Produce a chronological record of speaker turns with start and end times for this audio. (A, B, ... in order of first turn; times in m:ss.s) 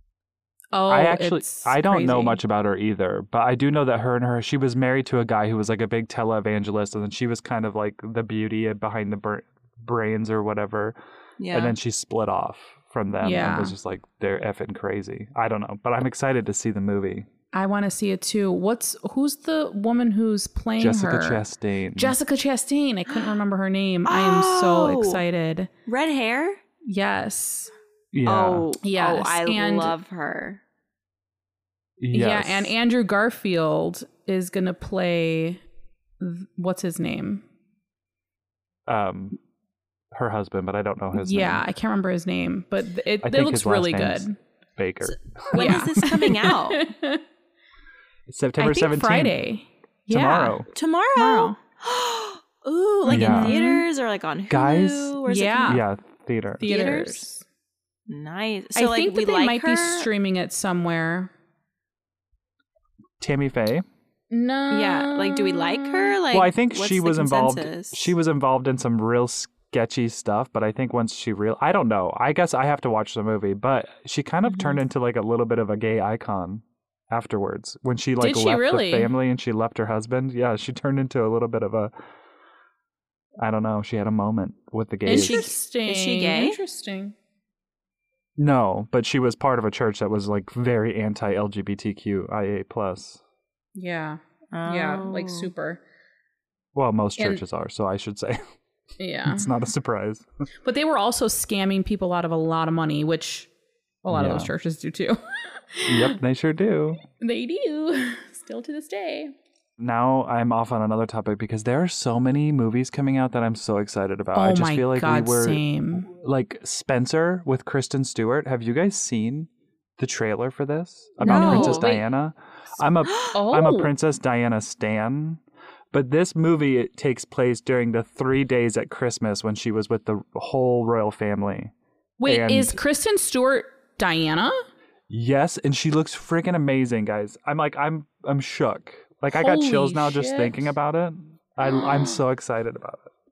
0:00.7-0:02.4 A
0:00.9-0:11.0 B
0:11.4-0:11.8 C
0:11.5-0:17.3 B
0:13.2-0:13.8 A
0:17.5-0:21.4 A
0:20.8-0:22.2 B
0:22.0-0:25.7 A
0:24.1-0:25.2 C
0:25.9-0:26.6 C
0:26.8-0:27.7 A
0:28.1-0:28.7 B
0:28.2-0:30.6 C
0:28.8-0:29.9 A
0:32.0-0:32.8 B
0:32.1-0:35.6 A
0:36.2-0:37.4 A
0:38.9-0:39.4 B
0:40.1-0:41.6 B
0:41.2-0:44.4 A
0:43.2-0:45.9 B
0:45.5-0:46.8 C
0:45.5-0:47.2 A
0:48.3-0:49.4 B
0:48.6-0:50.6 A
0:50.1-0:50.7 B
0:50.7-0:55.8 C
0:51.2-0:51.6 A
0:53.1-0:53.8 A
0:53.1-0:53.6 B
0:54.5-0:55.2 B
0:55.3-0:55.8 A
0:55.7-0:56.6 B
0:56.6-0:57.3 C
0:56.6-0:57.4 A
0:58.1-1:00.1 C
0:58.8-1:01.3 A
1:03.2-1:03.9 B
1:04.3-1:06.2 A
1:04.7-1:08.1 C
1:06.3-1:21.9 B
1:14.5-1:14.8 C
1:18.2-1:19.1 A
1:23.4-1:25.5 B
1:25.1-1:27.2 A
1:25.1-1:26.6 C
1:28.4-1:33.2 B
1:33.8-1:35.8 A
1:34.5-1:35.5 C
1:36.7-1:38.4 B
1:39.0-1:39.5 A
1:39.3-1:40.3 B
1:40.6-1:43.5 A
1:44.0-1:46.2 A
1:44.1-1:44.5 B
1:45.9-1:47.0 B
1:47.2-1:49.3 A
1:49.8-2:05.4 B
1:54.4-1:56.1 A
2:01.2-2:02.0 A
2:01.2-2:02.0 C
2:03.1-2:03.4 C
2:03.3-2:03.9 A
2:05.9-2:11.7 B
2:12.2-2:14.6 A
2:12.2-2:12.8 B
2:15.1-2:23.1 B
2:19.3-2:20.5 A
2:21.8-2:22.2 C